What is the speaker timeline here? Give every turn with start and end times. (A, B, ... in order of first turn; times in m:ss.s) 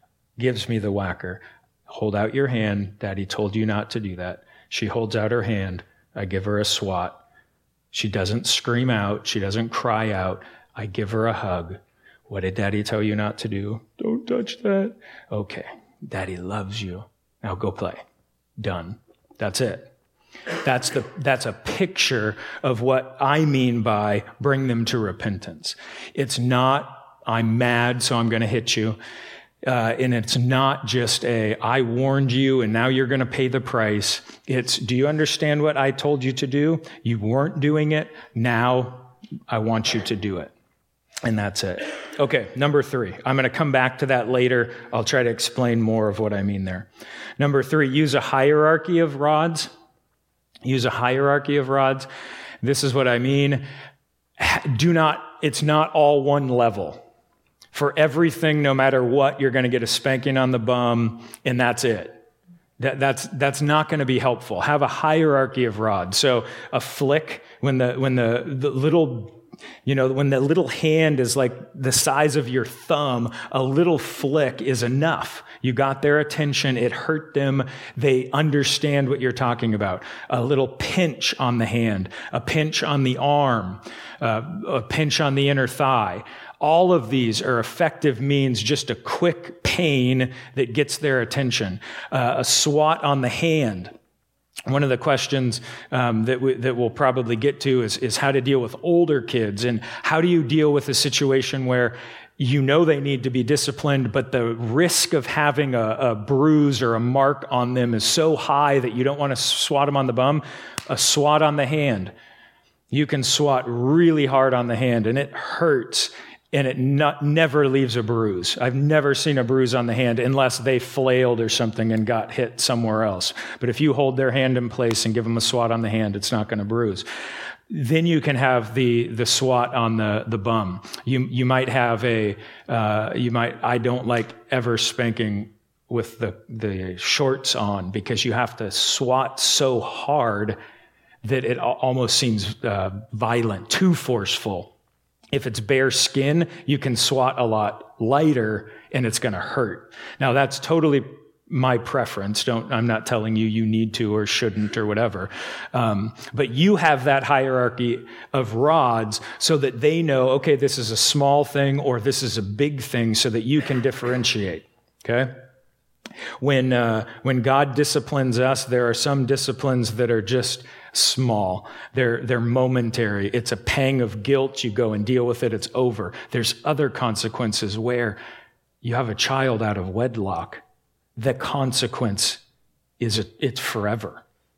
0:00.4-0:07.2 A
0:07.9-0:18.0 A
0:18.6-0:19.9 A
0:20.6-0:29.0 A
0:29.6-0:40.5 A
0:41.2-0:46.9 A
0:47.4-0:49.7 A
0:50.6-0:52.1 A
0:52.6-0:53.7 A
0:54.4-0:57.0 A
0:57.7-1:02.2 A
1:02.8-1:33.9 A
1:34.7-1:52.1 A
1:52.9-2:07.1 A
2:07.7-2:20.6 A
2:21.2-2:24.7 A
2:25.3-2:45.4 A
2:46.4-2:58.2 A
2:58.8-3:00.6 A
3:01.2-3:02.4 A
3:03.0-3:04.2 A